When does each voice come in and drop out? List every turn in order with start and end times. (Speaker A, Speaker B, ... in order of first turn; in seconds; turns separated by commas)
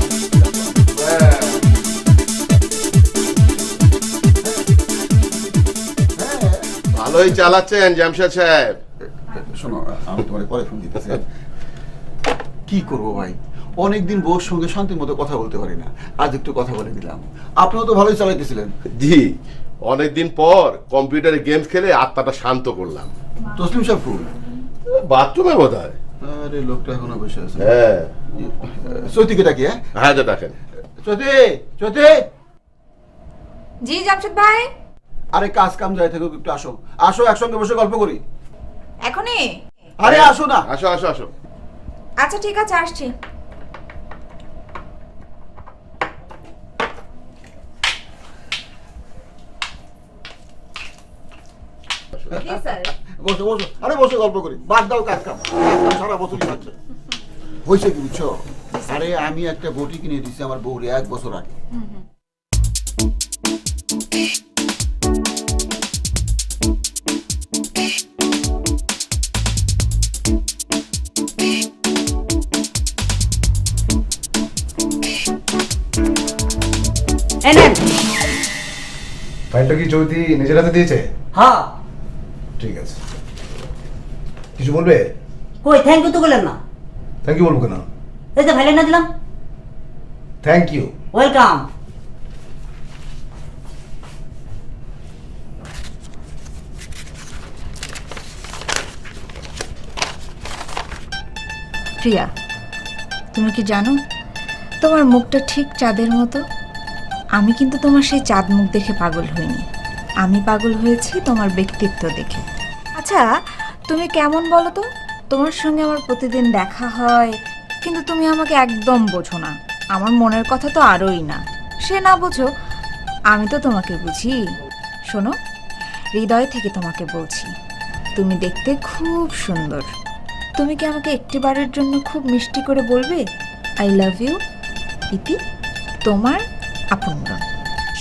Speaker A: 0.3-0.9, Speaker B: 1.0-1.6, Speaker A: 6.2-6.7, Speaker B: 6.9-8.8, Speaker A: 9.3-11.2, Speaker A: 12.7-18.7, Speaker B: 18.9-19.4, Speaker B: 19.9-23.1, Speaker A: 23.5-24.3, Speaker B: 24.9-26.0, Speaker A: 26.2-27.8, Speaker B: 27.6-28.1, Speaker A: 28.3-29.8, Speaker B: 30.0-30.6, Speaker A: 31.0-32.2, Speaker C: 33.8-34.7, Speaker A: 35.3-38.2, Speaker C: 39.0-39.5, Speaker A: 40.0-40.7, Speaker B: 40.0-41.3, Speaker C: 42.2-43.1, Speaker C: 52.3-52.9, Speaker A: 53.2-56.8, Speaker A: 57.6-61.5, Speaker C: 58.7-59.0, Speaker D: 77.4-77.8, Speaker E: 79.5-81.1, Speaker D: 81.3-81.7, Speaker E: 82.6-83.0, Speaker E: 84.6-85.1, Speaker D: 85.6-86.6, Speaker E: 87.2-87.8, Speaker D: 88.3-89.1, Speaker E: 90.4-90.9, Speaker D: 91.1-91.7, Speaker C: 102.0-102.3, Speaker C: 103.3-104.0, Speaker C: 104.8-106.4, Speaker C: 107.4-109.7, Speaker C: 110.2-112.5, Speaker C: 113.0-113.3, Speaker C: 113.9-122.5, Speaker C: 123.3-124.4, Speaker C: 125.1-125.3, Speaker C: 126.2-127.5, Speaker C: 128.1-129.9, Speaker C: 130.6-133.2, Speaker C: 133.8-134.4, Speaker C: 136.0-137.4